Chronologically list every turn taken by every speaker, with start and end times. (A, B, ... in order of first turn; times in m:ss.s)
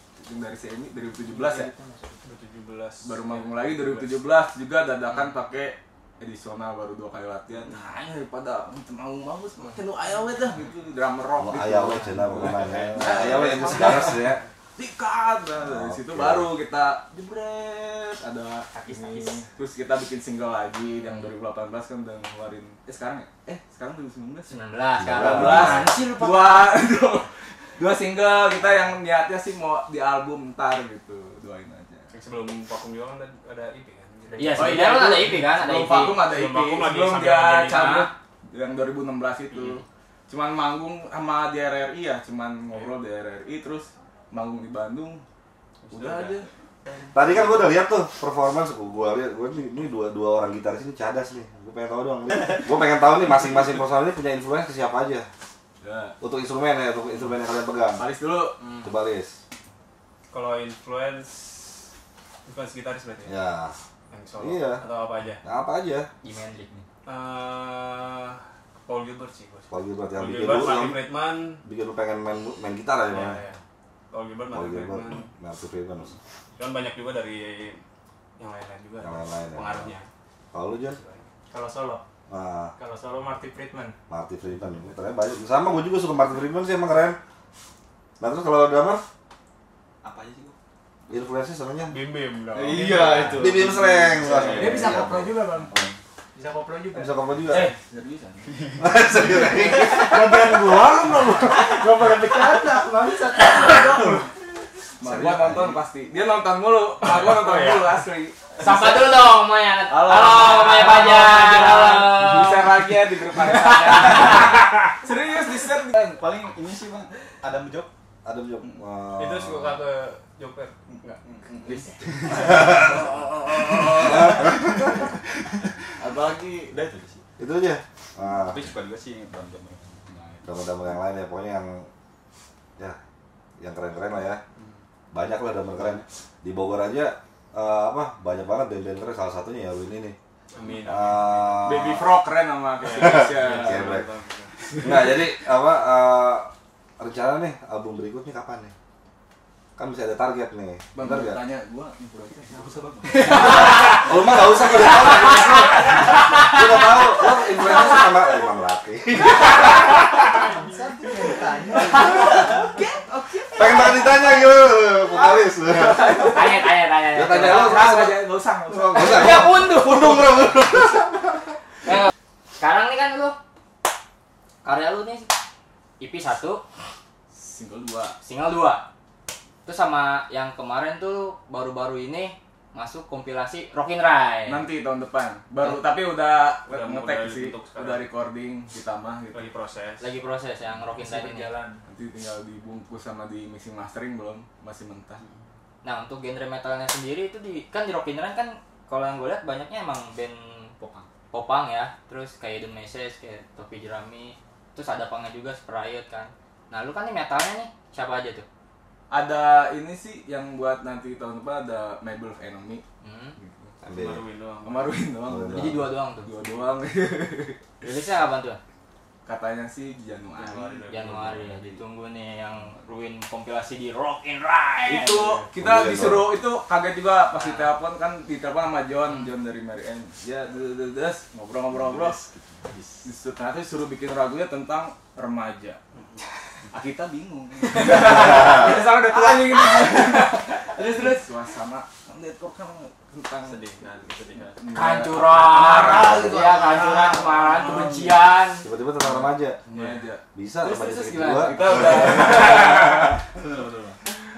0:00.2-0:01.7 A
0:01.3-0:02.2 B
0:02.2-0:04.2 C
0:03.0-0:32.1 A
0:11.4-0:14.4 D
0:12.6-0:13.0 C
0:15.6-0:16.5 D
0:18.7-0:19.4 B
0:24.5-0:26.7 E
0:25.0-0:25.9 D
0:32.1-0:35.0 C
0:34.4-0:36.2 E
0:34.5-0:45.2 A
0:36.2-0:38.1 C
0:45.8-0:46.5 C
0:45.9-0:46.5 A
0:47.1-0:55.3 D
0:55.8-0:56.2 A
0:56.2-0:58.0 D
0:58.0-0:58.6 A
0:58.8-0:59.4 D
1:00.3-1:01.8 C
1:02.4-1:03.4 C
1:03.2-1:03.7 D
1:04.1-1:05.4 C
1:04.4-1:04.8 D
1:05.4-1:06.1 D
1:06.2-1:06.7 E
1:07.0-1:11.6 C
1:09.7-1:11.0 D
1:11.6-1:13.4 D
1:13.1-1:15.3 C
1:14.5-1:16.1 D
1:16.6-1:17.8 C
1:18.4-1:20.1 C
1:19.0-1:19.9 D
1:20.5-1:21.0 D
1:20.8-1:21.3 C
1:21.5-1:22.0 B
1:22.3-1:22.7 D
1:22.8-1:24.0 B
1:24.1-1:27.2 D
1:28.2-1:29.0 D
1:30.0-1:30.6 B
1:31.1-1:32.0 D
1:31.9-1:33.4 C
1:32.5-1:35.8 B
1:32.7-1:34.9 A
1:33.3-1:35.9 D
1:36.3-1:37.7 B
1:36.9-1:37.7 D
1:37.5-1:38.6 A
1:38.8-1:40.5 D
1:39.4-1:44.3 B
1:45.0-1:49.1 A
1:45.0-1:45.8 D
1:47.0-1:47.9 C
1:48.6-1:52.7 E
1:49.9-1:56.2 A
1:53.4-1:54.5 E
1:56.1-1:57.9 B
1:58.2-1:59.8 D
1:59.2-2:01.1 C
2:01.5-2:04.4 A
2:04.0-2:04.9 D
2:04.1-2:04.4 B
2:06.0-2:07.2 B
2:07.4-2:08.6 D
2:08.4-2:10.0 B
2:10.1-2:10.4 A
2:10.4-2:11.9 D
2:13.6-2:14.4 D
2:15.1-2:20.2 D
2:20.5-2:22.0 C
2:20.8-2:22.0 D
2:21.6-2:23.9 A
2:22.8-2:24.5 C
2:23.0-2:24.1 D
2:24.8-2:28.7 D
2:29.8-2:31.4 D
2:30.9-2:34.0 A
2:32.5-2:33.3 B
2:33.3-2:40.1 D
2:40.3-2:44.1 B
2:43.6-2:46.4 D
2:45.9-2:46.3 A
2:46.2-2:47.9 E
2:47.1-2:51.4 D
2:47.6-2:49.1 B
2:47.8-2:48.7 A
2:48.9-2:50.4 E
2:51.9-2:53.4 E
2:54.6-2:55.3 E
2:56.0-2:56.6 E
2:57.3-2:58.2 A
2:58.2-2:58.8 E
2:59.6-3:04.6 E
3:04.5-3:09.5 A
3:06.7-3:08.1 C
3:09.3-3:10.1 C
3:10.0-3:11.5 E
3:10.9-3:11.8 B
3:11.8-3:15.2 A
3:15.8-3:28.4 E
3:29.1-3:32.8 A
3:33.0-3:33.4 E
3:33.4-3:33.7 A
3:33.8-3:34.2 D
3:33.8-3:35.1 C
3:34.6-3:37.6 A
3:35.3-3:35.8 D
3:35.5-3:36.3 E
3:37.8-3:38.6 E
3:39.2-3:40.9 A
3:40.3-3:41.8 C
3:40.9-3:45.4 E
3:44.8-3:52.2 A
3:45.6-3:46.3 D
3:47.4-3:47.7 E
3:51.7-3:53.1 B
3:53.0-3:55.8 A
3:55.9-3:56.2 C
3:56.7-4:03.7 A
3:58.2-3:59.2 B
4:00.8-4:01.2 E
4:03.4-4:04.8 C
4:04.6-4:06.5 A
4:04.7-4:08.6 E
4:05.7-4:07.9 B
4:07.6-4:08.0 A
4:08.6-4:09.6 D
4:09.0-4:10.2 A
4:10.3-4:12.1 D
4:10.6-4:12.5 E
4:11.4-4:13.2 A
4:13.3-4:14.0 B